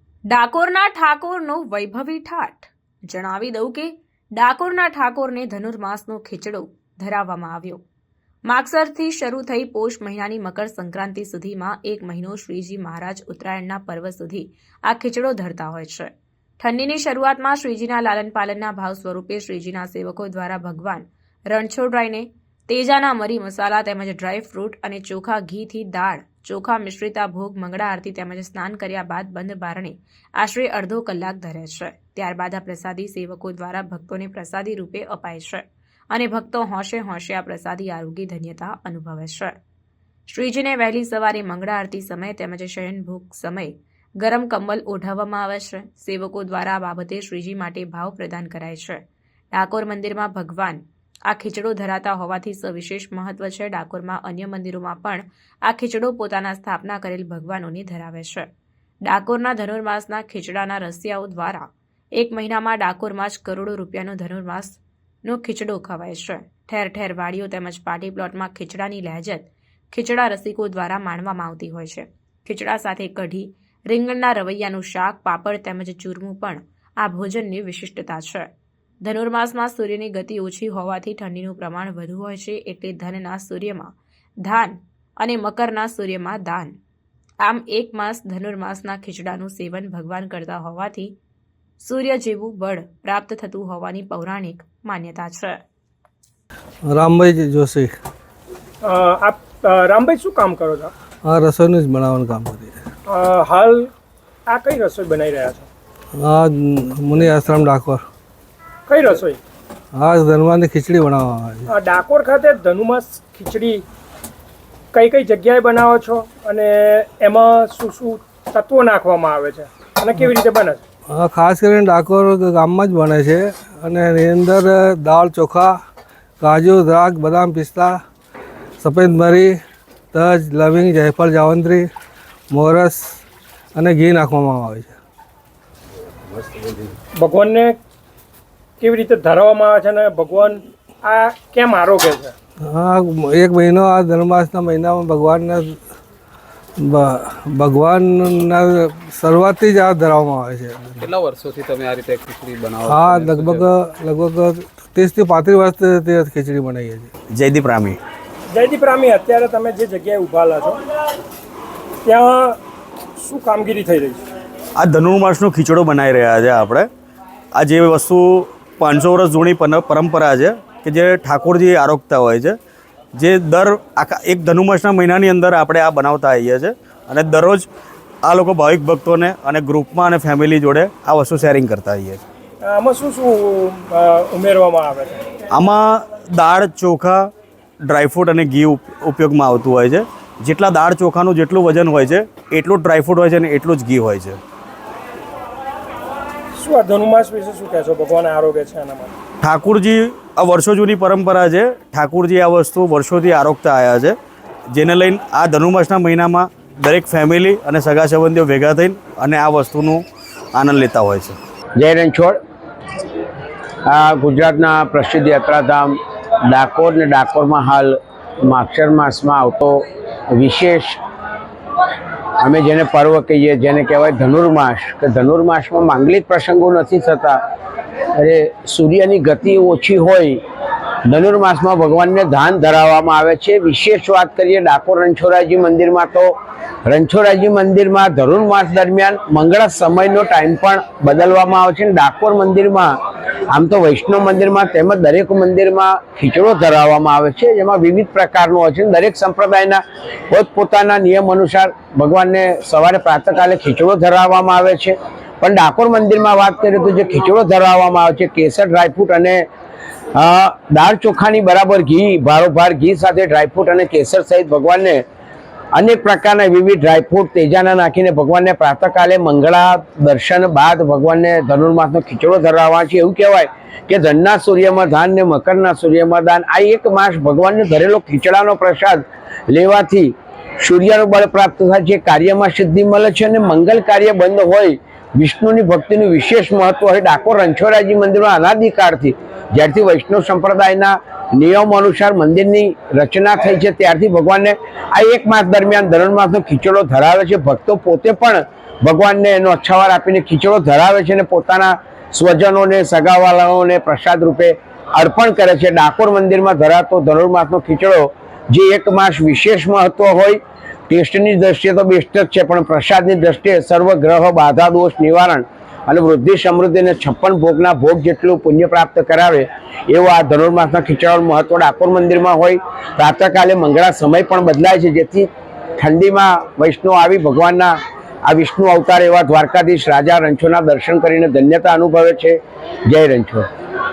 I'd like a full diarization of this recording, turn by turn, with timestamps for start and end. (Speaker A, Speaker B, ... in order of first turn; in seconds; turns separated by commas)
Speaker A: 0.3-7.8, Speaker A: 8.5-39.5, Speaker A: 40.3-49.0, Speaker A: 49.5-58.5, Speaker A: 59.0-78.5, Speaker A: 79.0-86.8, Speaker A: 87.4-91.2, Speaker A: 91.8-95.6, Speaker B: 96.8-97.9, Speaker C: 98.8-100.9, Speaker B: 101.2-102.8, Speaker C: 103.1-103.9, Speaker C: 104.5-105.7, Speaker B: 106.2-108.0, Speaker C: 108.9-109.4, Speaker B: 109.9-111.7, Speaker C: 111.7-113.8, Speaker C: 114.9-120.8, Speaker B: 121.1-125.8, Speaker B: 126.4-128.0, Speaker B: 128.8-129.6, Speaker B: 130.1-131.9, Speaker B: 132.5-133.2, Speaker B: 133.8-134.9, Speaker C: 137.2-137.8, Speaker C: 138.8-142.3, Speaker B: 142.6-145.8, Speaker B: 146.8-151.1, Speaker D: 151.0-153.7, Speaker B: 152.8-157.1, Speaker E: 157.3-158.0, Speaker C: 158.5-160.8, Speaker C: 162.0-162.6, Speaker C: 163.2-164.2, Speaker E: 164.8-166.9, Speaker E: 167.6-172.6, Speaker E: 173.2-177.6, Speaker E: 178.2-182.2, Speaker C: 182.6-185.2, Speaker E: 185.5-187.2, Speaker E: 187.9-194.4, Speaker C: 196.5-199.2, Speaker E: 199.4-204.2, Speaker E: 204.7-210.0, Speaker E: 210.6-211.4, Speaker F: 211.8-212.4, Speaker F: 213.8-215.9, Speaker F: 216.5-221.0, Speaker F: 222.4-227.4, Speaker F: 228.2-230.4, Speaker F: 231.1-236.3, Speaker F: 236.8-242.9, Speaker F: 243.5-259.4, Speaker F: 260.1-265.0, Speaker F: 265.8-327.8, Speaker F: 328.3-333.5